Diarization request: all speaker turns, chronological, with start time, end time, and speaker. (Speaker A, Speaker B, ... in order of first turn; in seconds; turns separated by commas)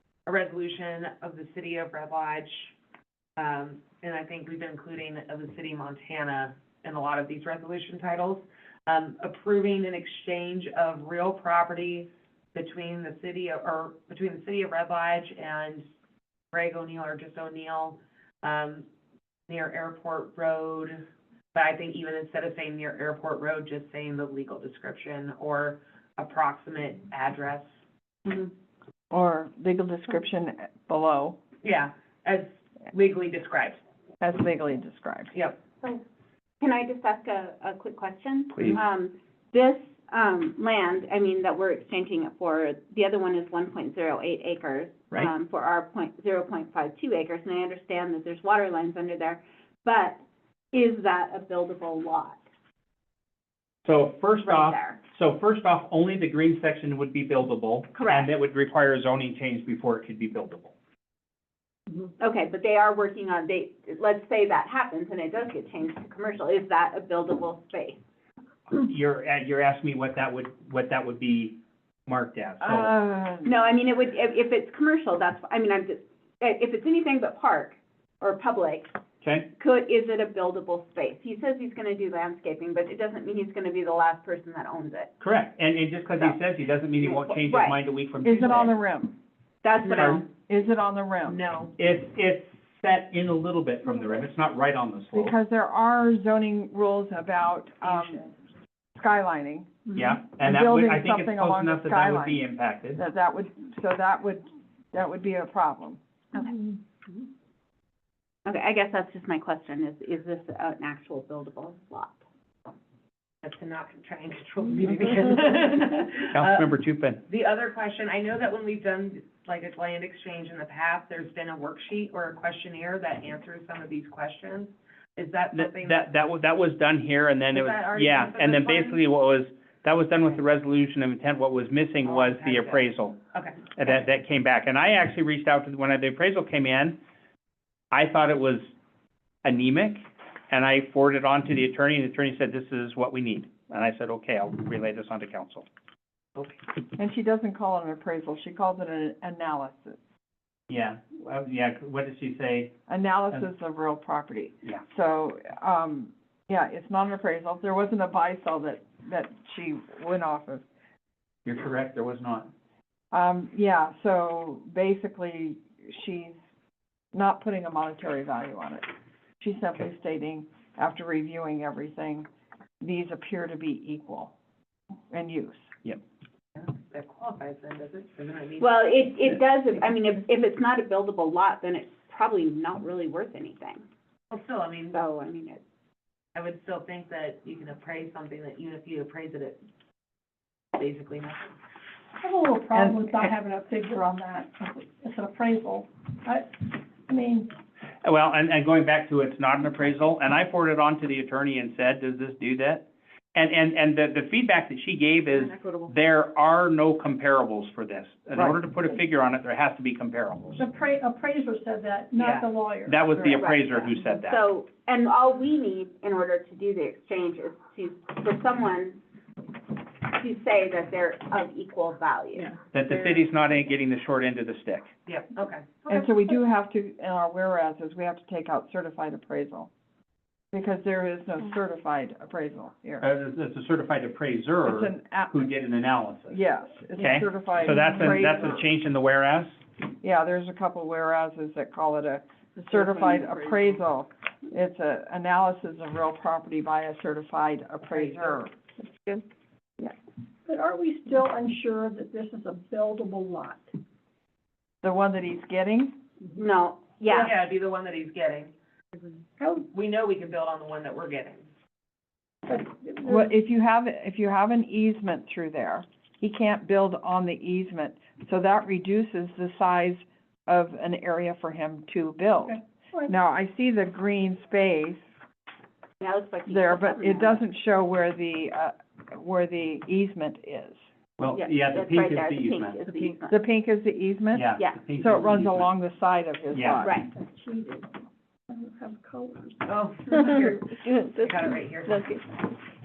Speaker A: 0.3-2.7, Speaker A: 3.4-15.9, Speaker A: 16.5-18.9, Speaker A: 19.5-27.7, Speaker B: 28.3-28.5, Speaker C: 29.1-31.4, Speaker A: 31.6-33.8, Speaker C: 34.2-35.3, Speaker B: 36.6-52.4, Speaker D: 38.5-38.8, Speaker D: 53.9-60.7, Speaker B: 54.4-55.0, Speaker B: 58.0-58.3, Speaker B: 62.2-68.0, Speaker D: 68.7-72.9, Speaker C: 72.6-73.6, Speaker B: 73.5-78.9, Speaker D: 79.2-79.5, Speaker B: 79.6-85.1, Speaker D: 85.2-88.7, Speaker B: 87.3-87.8, Speaker C: 88.2-89.2, Speaker B: 89.6-90.3, Speaker A: 89.8-90.2, Speaker D: 90.0-90.2, Speaker C: 90.5-91.4, Speaker A: 91.2-91.7, Speaker D: 91.8-95.3, Speaker C: 95.1-98.3, Speaker A: 97.8-98.3, Speaker C: 99.0-99.9, Speaker D: 100.0-103.0, Speaker C: 100.4-102.4, Speaker C: 103.0-106.0, Speaker B: 106.3-106.6, Speaker B: 108.5-112.2, Speaker A: 113.4-116.7, Speaker D: 116.3-117.2, Speaker A: 117.2-126.1, Speaker D: 125.5-133.2, Speaker A: 127.5-129.0, Speaker A: 132.0-133.6, Speaker D: 133.8-137.0, Speaker D: 137.9-138.7, Speaker D: 139.4-145.7, Speaker C: 147.0-150.0, Speaker D: 150.7-152.7, Speaker C: 152.9-160.6, Speaker D: 161.4-162.5, Speaker C: 163.1-166.4, Speaker C: 167.1-168.9, Speaker C: 169.4-172.3, Speaker C: 172.8-174.3, Speaker C: 175.1-175.7, Speaker A: 176.6-179.4, Speaker B: 178.6-183.8, Speaker A: 184.3-185.0, Speaker B: 184.9-185.6, Speaker A: 186.3-189.6, Speaker A: 190.8-191.5, Speaker E: 192.2-197.5, Speaker C: 192.8-193.3, Speaker D: 198.0-210.6, Speaker A: 205.3-205.9, Speaker E: 210.6-213.1, Speaker A: 212.2-212.5, Speaker D: 212.9-214.4, Speaker B: 213.3-219.0, Speaker B: 220.0-222.6, Speaker D: 222.7-224.9, Speaker A: 225.1-225.9, Speaker C: 225.9-229.7, Speaker C: 230.5-233.1, Speaker D: 233.0-236.4, Speaker C: 234.7-235.5, Speaker C: 236.3-238.6, Speaker D: 237.0-239.6, Speaker C: 240.0-248.5, Speaker E: 242.6-243.8, Speaker A: 247.9-248.4, Speaker E: 250.5-253.8, Speaker C: 254.8-255.9, Speaker B: 256.4-257.3, Speaker A: 257.1-258.5, Speaker A: 259.6-261.4, Speaker E: 262.5-263.3, Speaker C: 263.0-275.0, Speaker E: 272.5-273.1, Speaker B: 276.0-277.4, Speaker C: 276.5-280.8, Speaker D: 281.2-283.1, Speaker B: 281.4-283.4, Speaker C: 283.3-286.9, Speaker D: 284.3-285.7, Speaker D: 286.5-286.9, Speaker B: 286.8-287.1, Speaker E: 287.0-287.9, Speaker E: 288.5-289.8, Speaker A: 289.6-292.2